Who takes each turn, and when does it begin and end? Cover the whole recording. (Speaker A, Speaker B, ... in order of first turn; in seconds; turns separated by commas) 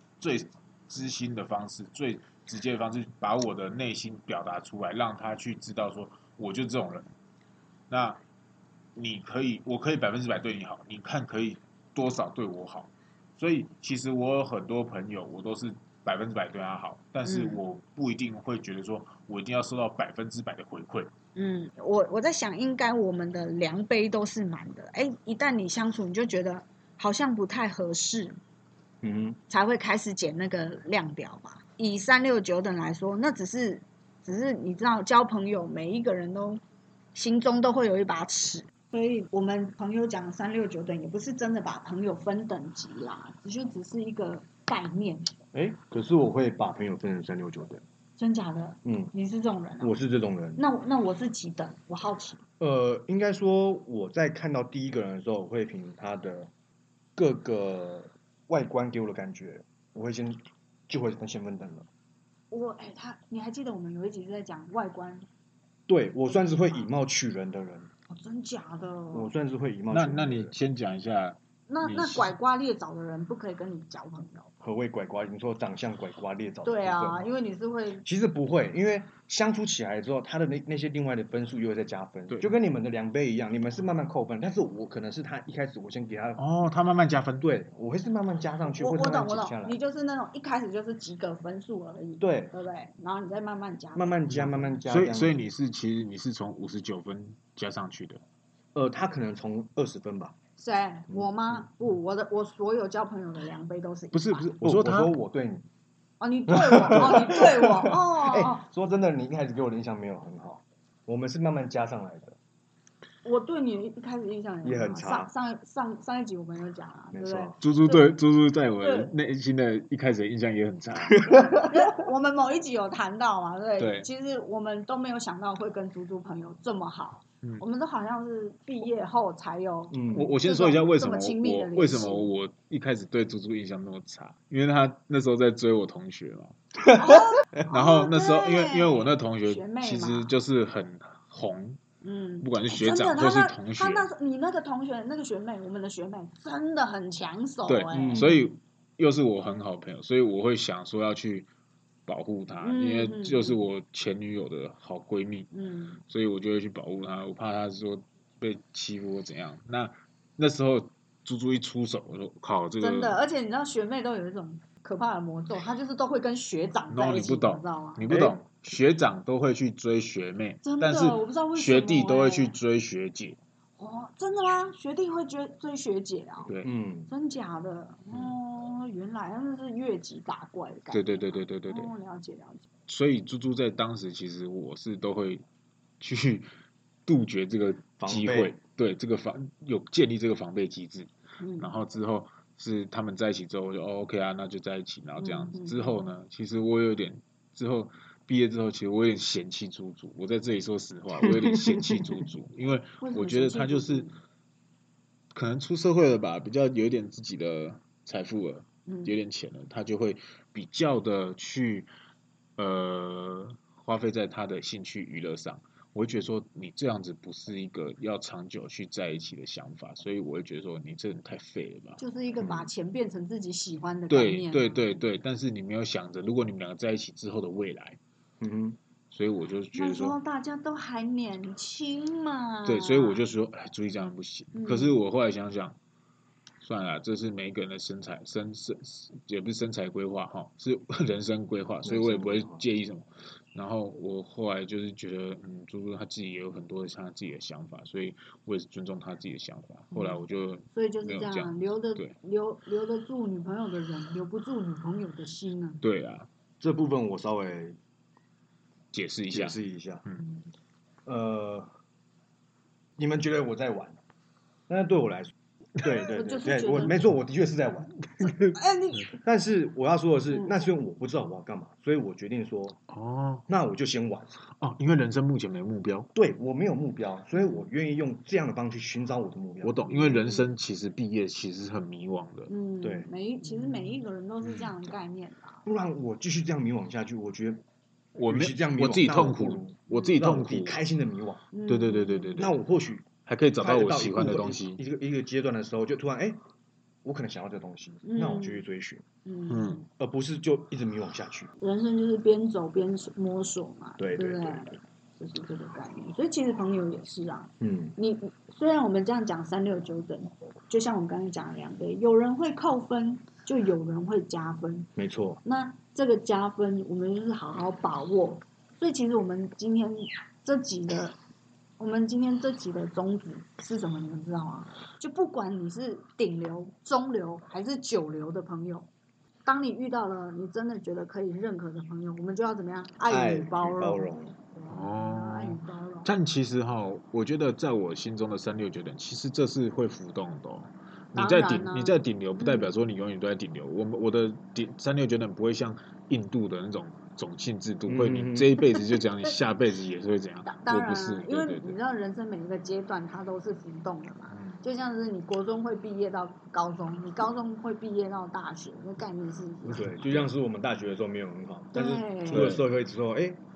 Speaker A: 0.2-7.1, Speaker A: 7.9-8.2, Speaker A: 8.9-21.1, Speaker B: 17.2-17.6, Speaker B: 21.4-28.4, Speaker C: 29.0-29.4, Speaker B: 29.5-36.6, Speaker B: 37.1-45.3, Speaker C: 45.5-47.8, Speaker B: 48.2-49.9, Speaker C: 48.8-49.1, Speaker C: 49.8-50.6, Speaker B: 50.6-52.4, Speaker C: 52.6-56.5, Speaker C: 57.1-61.9, Speaker B: 62.5-65.3, Speaker C: 65.9-67.9, Speaker B: 68.1-69.3, Speaker C: 69.1-70.5, Speaker A: 69.9-72.3, Speaker B: 71.7-74.5, Speaker C: 74.6-77.3, Speaker B: 76.6-78.0, Speaker C: 78.0-86.4, Speaker A: 86.4-87.5, Speaker C: 87.4-89.8, Speaker B: 88.7-94.2, Speaker C: 92.2-92.5, Speaker C: 93.9-95.5, Speaker A: 94.3-98.2, Speaker C: 98.7-100.3, Speaker B: 100.6-104.5, Speaker A: 104.1-105.1, Speaker C: 104.6-105.6, Speaker B: 106.2-108.6, Speaker C: 106.5-112.4, Speaker B: 113.2-118.2, Speaker C: 114.6-115.3, Speaker C: 117.1-117.6, Speaker A: 117.6-121.3, Speaker B: 118.8-119.1, Speaker C: 121.1-121.8, Speaker B: 121.5-132.3, Speaker A: 123.8-124.1, Speaker C: 129.9-130.3, Speaker A: 130.1-136.5, Speaker B: 136.9-140.3, Speaker A: 137.6-141.8, Speaker B: 142.0-148.4, Speaker A: 142.4-144.1, Speaker A: 147.7-151.5, Speaker C: 147.9-148.4, Speaker A: 152.1-155.5, Speaker B: 152.6-153.7, Speaker B: 155.5-156.0, Speaker A: 156.1-163.2, Speaker B: 162.8-168.0, Speaker A: 166.9-173.4, Speaker C: 168.1-168.4, Speaker B: 170.6-172.6, Speaker B: 173.8-176.5, Speaker C: 176.6-177.1, Speaker B: 177.1-182.7, Speaker A: 180.9-181.9, Speaker A: 182.9-185.4, Speaker A: 186.0-186.5, Speaker A: 187.1-204.1, Speaker C: 188.0-188.5, Speaker B: 191.4-191.7, Speaker B: 195.2-196.0, Speaker C: 201.2-202.1, Speaker B: 203.0-204.1, Speaker A: 205.3-211.9, Speaker B: 208.9-209.1, Speaker A: 212.6-222.0, Speaker B: 222.0-225.0, Speaker A: 224.1-228.0, Speaker C: 228.4-228.8, Speaker A: 229.1-230.2, Speaker B: 229.7-233.2, Speaker A: 232.6-235.8, Speaker B: 234.5-235.0, Speaker A: 236.6-252.1, Speaker C: 241.8-242.6, Speaker B: 250.7-255.8, Speaker A: 255.8-256.3, Speaker C: 256.6-257.8, Speaker A: 258.9-260.2, Speaker C: 259.3-260.0, Speaker C: 261.1-261.7, Speaker C: 263.0-264.0, Speaker C: 264.7-268.3, Speaker B: 265.8-267.0, Speaker B: 268.5-269.1, Speaker C: 269.1-272.8, Speaker A: 272.9-273.5, Speaker C: 273.5-274.4, Speaker A: 274.5-276.1, Speaker C: 276.1-280.2, Speaker A: 279.6-282.5, Speaker B: 282.5-285.6, Speaker C: 282.8-283.1, Speaker C: 285.6-287.6, Speaker A: 288.1-290.8, Speaker C: 288.3-291.5, Speaker B: 291.5-292.4, Speaker A: 291.7-292.6, Speaker C: 292.4-296.4, Speaker A: 293.2-294.8, Speaker C: 297.0-299.0, Speaker B: 298.0-298.6, Speaker B: 299.2-299.8, Speaker A: 299.5-299.8, Speaker C: 300.0-301.5, Speaker B: 301.6-314.9, Speaker C: 304.0-304.8, Speaker C: 307.6-307.9, Speaker C: 314.9-315.4, Speaker B: 315.4-321.1, Speaker B: 321.8-328.9, Speaker B: 329.4-336.1, Speaker C: 333.1-334.3, Speaker A: 334.7-351.8, Speaker B: 341.1-342.7, Speaker C: 347.9-348.6, Speaker B: 350.4-359.9, Speaker A: 354.3-354.6, Speaker A: 359.7-360.3, Speaker C: 359.8-363.4, Speaker B: 361.7-362.5, Speaker A: 362.3-362.6